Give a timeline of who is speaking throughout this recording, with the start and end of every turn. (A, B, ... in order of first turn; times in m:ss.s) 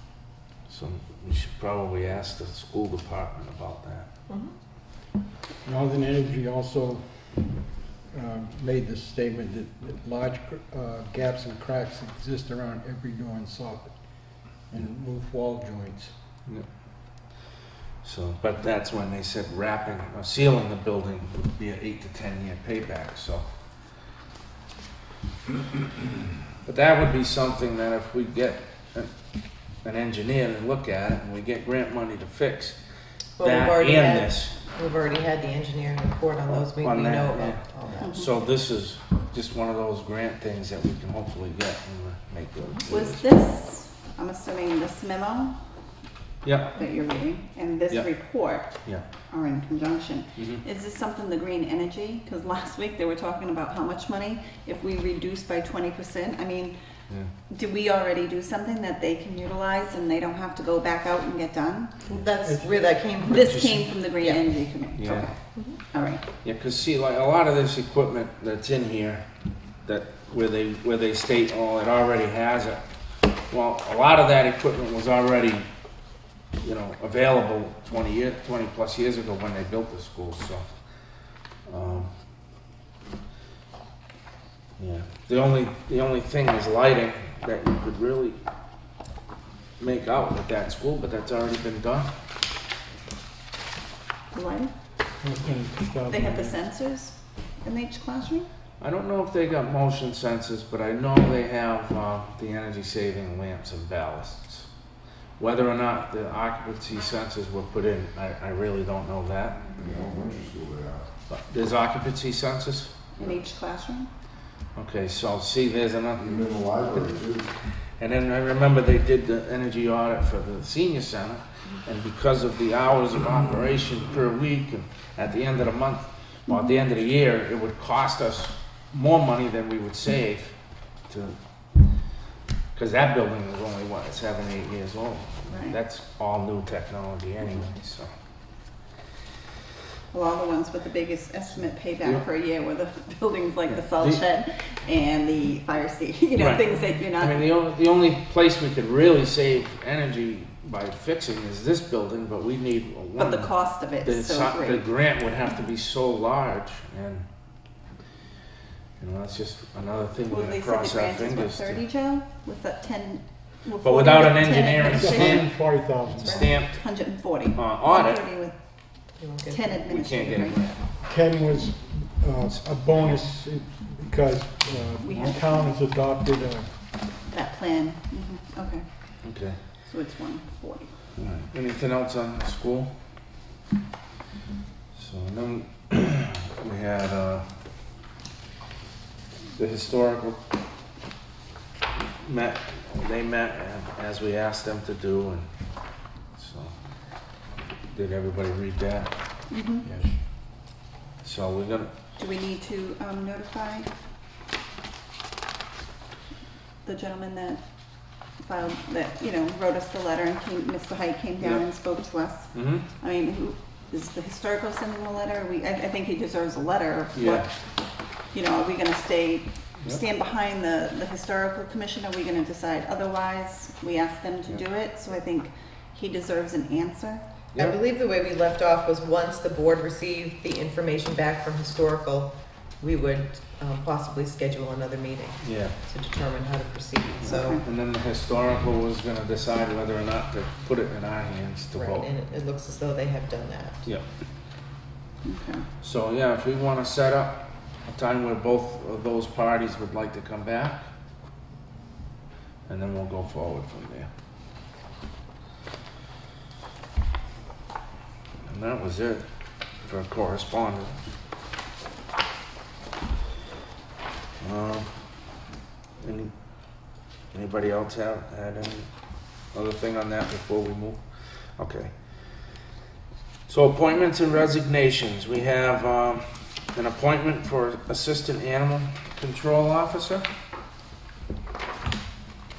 0:00.7-0:04.1 A
0:04.3-0:04.5 B
0:05.6-0:07.6 C
0:08.1-0:13.9 C
0:14.7-0:16.1 C
0:18.0-0:23.5 A
0:26.6-0:29.1 A
0:29.8-0:32.8 A
0:33.4-0:38.2 B
0:33.4-0:34.5 A
0:36.5-0:43.2 A
0:38.0-0:38.3 D
0:42.9-0:45.6 D
0:46.4-0:46.8 A
0:46.8-0:56.7 D
0:50.4-0:50.6 A
0:57.5-1:01.9 D
1:02.1-1:03.8 B
1:03.3-1:05.4 D
1:03.3-1:04.4 A
1:04.9-1:05.3 A
1:05.9-1:06.2 D
1:06.4-1:09.3 A
1:09.8-1:12.8 A
1:13.5-1:15.7 A
1:16.6-1:20.7 A
1:21.7-1:22.1 A
1:24.8-1:28.4 A
1:29.8-1:32.1 A
1:34.3-1:34.7 D
1:35.2-1:36.6 C
1:36.1-1:38.5 D
1:38.8-1:44.7 A
1:45.4-1:49.6 A
1:49.8-1:51.0 E
1:51.3-1:52.9 A
1:53.2-1:54.1 D
1:54.8-1:57.2 A
1:56.2-1:57.5 E
1:58.0-2:10.6 A
2:11.1-2:11.4 A
2:12.8-2:18.1 A
2:15.5-2:15.8 D
2:20.1-2:27.5 D
2:26.4-2:37.3 A
2:33.2-2:34.8 D
2:39.0-2:41.8 A
2:40.3-2:45.5 D
2:43.8-2:45.6 A
2:44.8-2:46.4 C
2:46.1-2:46.8 A
2:46.2-2:48.5 D
2:47.5-2:48.2 A
2:49.2-2:49.9 B
2:49.5-2:50.8 D
2:49.9-2:50.8 A
2:51.0-2:56.7 C
2:55.0-2:55.7 D
2:57.3-2:58.9 D
2:59.2-2:59.6 A
2:59.9-3:00.9 D
3:01.2-3:02.9 A
3:04.9-3:07.5 A
3:09.6-3:10.4 A
3:12.2-3:15.5 A
3:16.4-3:16.8 A
3:17.9-3:19.1 A
3:19.5-3:19.9 D
3:21.2-3:21.9 A
3:22.2-3:23.9 D
3:26.8-3:27.6 D
3:28.4-3:37.5 D
3:32.5-3:32.9 A
3:37.1-3:37.5 A
3:38.3-3:47.2 D
3:47.6-3:57.6 B
3:55.4-3:55.8 A
3:57.2-4:02.1 A
3:57.3-3:57.6 D
4:01.8-4:03.8 B
4:05.2-4:05.7 D
4:05.8-4:10.9 A
4:12.7-4:14.1 A
4:18.5-4:19.2 A
4:19.8-4:21.0 A
4:24.4-4:24.9 A
4:26.0-4:26.3 A
4:27.3-4:28.9 A
4:29.5-4:31.0 A
4:31.6-4:31.9 A
4:33.5-4:36.2 A
4:36.8-4:40.3 A